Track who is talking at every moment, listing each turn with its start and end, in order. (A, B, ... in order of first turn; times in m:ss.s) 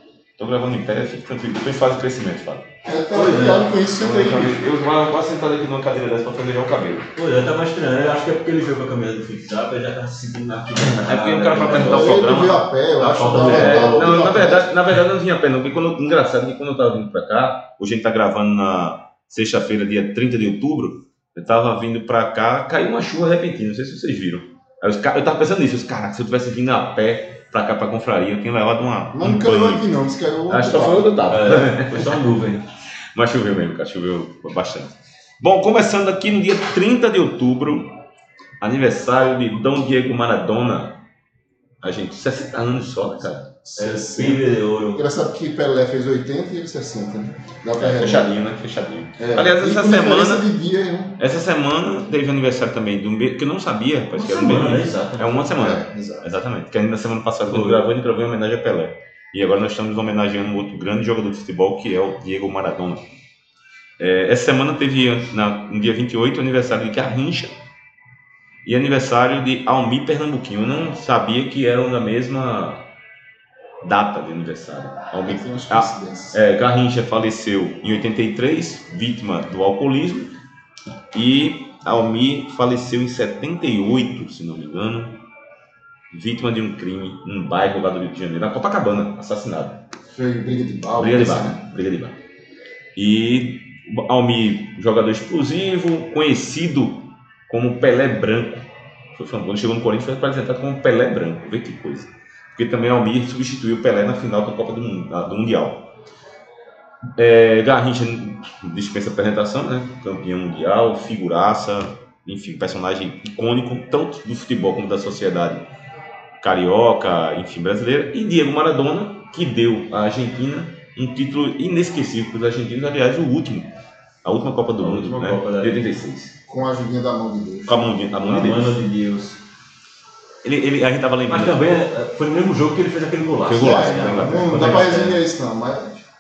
0:00.4-0:02.7 A
0:02.8-0:04.7 B
0:03.1-0:03.7 C
0:03.7-0:07.1 A
0:07.2-0:12.2 C
0:10.8-0:12.7 A
0:11.7-0:14.7 B
0:13.0-0:14.3 C
0:13.2-0:29.9 A
0:29.1-0:31.2 B
0:30.5-0:32.2 A
0:31.3-0:32.7 C
0:33.1-0:37.9 A
0:38.6-0:41.0 A
0:41.8-0:43.5 A
0:43.6-0:48.3 B
0:43.8-0:45.0 C
0:47.8-0:50.5 A
0:49.2-0:51.2 B
0:51.2-1:03.0 A
0:54.2-0:55.5 C
0:55.6-0:56.3 B
0:57.5-0:57.9 C
1:04.0-1:07.5 A
1:08.6-1:12.8 A
1:13.8-1:20.3 A
1:15.2-1:16.4 B
1:21.1-1:25.2 A
1:26.1-1:29.8 A
1:30.1-1:31.6 B
1:31.0-1:32.2 A
1:33.0-1:45.8 A
1:47.2-1:55.6 A
1:56.4-2:03.7 A
2:04.2-2:06.3 A
2:04.8-2:05.8 C
2:06.5-2:08.0 B
2:07.7-2:08.8 A
2:08.1-2:09.4 C
2:10.4-2:11.8 A
2:11.3-2:15.2 C
2:13.4-2:15.1 A
2:13.6-2:16.0 B